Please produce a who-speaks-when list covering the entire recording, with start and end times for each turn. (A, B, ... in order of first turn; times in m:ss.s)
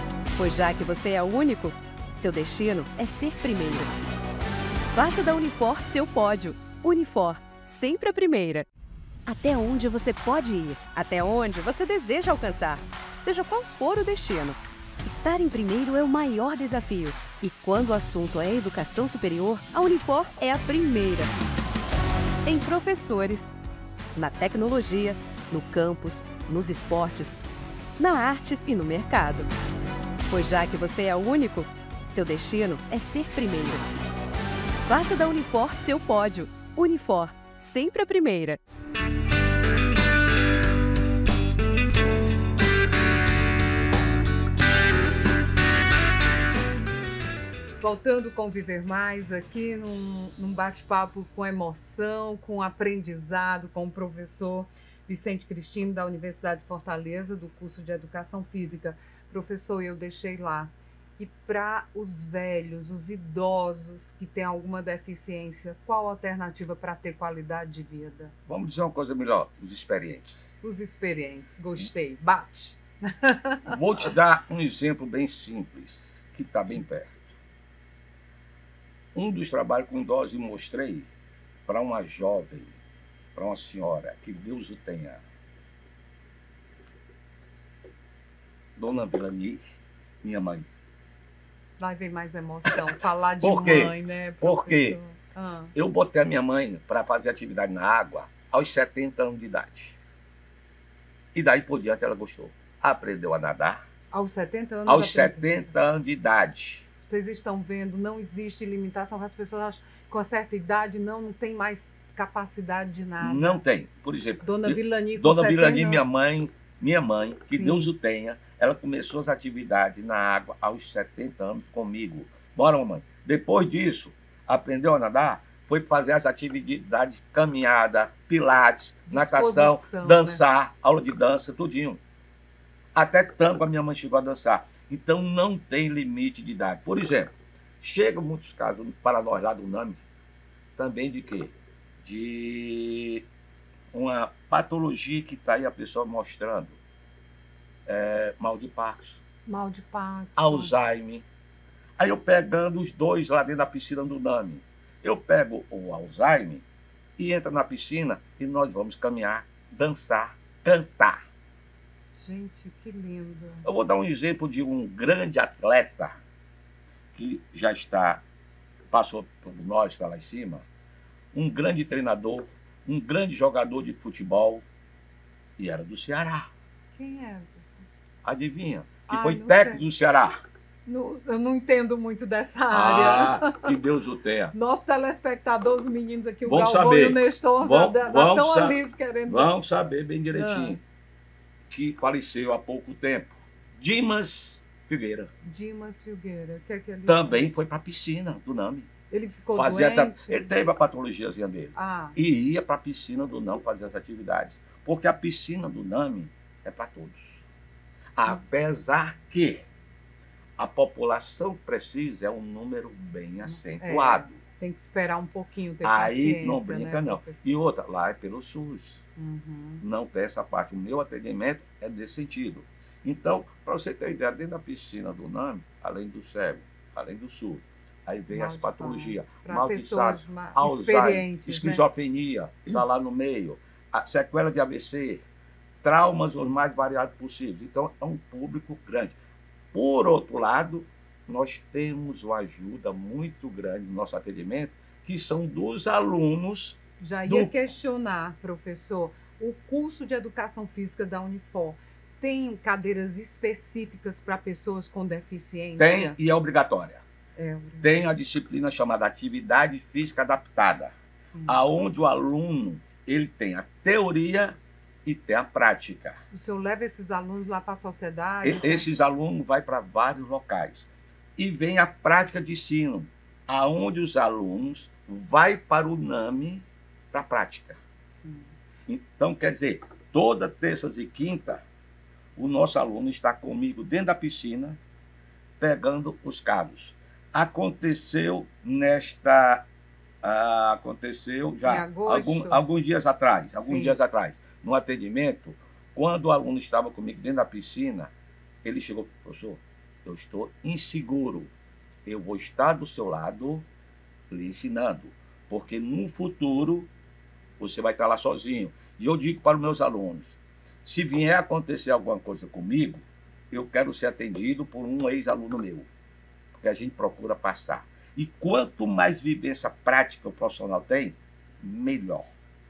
0:00.4-0:03.9 A
0:04.9-0:08.7 A
0:09.2-0:21.3 A
0:22.4-0:23.5 A
0:24.1-0:27.4 A
0:28.0-0:29.5 A
0:30.3-0:33.9 A
0:34.9-0:38.6 A
0:47.8-1:08.3 B
1:08.5-1:10.5 C
1:10.6-1:13.8 B
1:13.7-1:17.3 C
1:19.1-1:21.1 C
1:21.6-1:22.7 C
1:23.3-1:25.2 C
1:28.8-1:29.6 C
1:30.2-1:30.6 C
1:31.8-1:35.7 B
1:33.4-1:35.0 C
1:35.7-1:40.0 C
1:41.3-1:43.8 C
1:44.1-1:45.7 B
1:44.8-1:46.8 C
1:47.0-1:53.6 B
1:53.2-2:12.0 C
1:54.4-1:56.0 B
1:57.5-1:57.9 B
2:09.1-2:10.4 B
2:12.9-2:20.0 C
2:20.8-2:23.2 C
2:23.9-2:26.8 C
2:27.8-2:29.2 C
2:29.4-2:30.7 B
2:30.4-2:31.2 C
2:32.0-2:36.6 C
2:37.2-2:41.2 C
2:42.1-2:43.7 B
2:43.6-2:46.2 C
2:47.1-2:48.2 C
2:48.9-2:50.6 C
2:51.3-2:54.6 C
2:55.6-2:56.5 C
2:56.9-2:57.8 B
2:58.2-3:00.4 C
2:59.1-2:59.8 B
3:00.8-3:03.7 B
3:02.7-3:04.5 C
3:04.5-3:09.5 B
3:06.4-3:10.8 C
3:10.3-3:10.8 B
3:11.7-3:15.3 C
3:15.4-3:17.4 B
3:17.1-3:18.9 C
3:19.1-3:20.5 B
3:19.5-3:27.4 C
3:21.7-3:22.2 B
3:28.2-3:29.6 C
3:30.6-3:34.4 C
3:33.7-3:37.5 B
3:35.8-3:39.0 C
3:39.2-3:39.8 B
3:39.8-3:55.2 C
3:48.3-3:51.8 B
3:55.8-3:59.1 C
3:59.7-4:07.5 C
4:07.0-4:16.2 B
4:15.8-4:17.0 C
4:17.4-4:18.0 B
4:17.8-4:20.9 C
4:21.3-4:21.6 B
4:21.5-4:26.2 C
4:26.3-4:28.9 B
4:28.4-4:37.8 C
4:38.2-4:38.5 B
4:38.9-4:41.6 C
4:42.4-4:44.8 C
4:45.6-4:49.6 C
4:50.2-4:58.1 C
4:51.6-4:52.6 B
4:53.7-4:54.0 B
4:58.6-5:01.5 C
5:02.0-5:03.6 C
5:04.3-5:06.9 C
5:07.6-5:15.9 C
5:16.6-5:22.3 C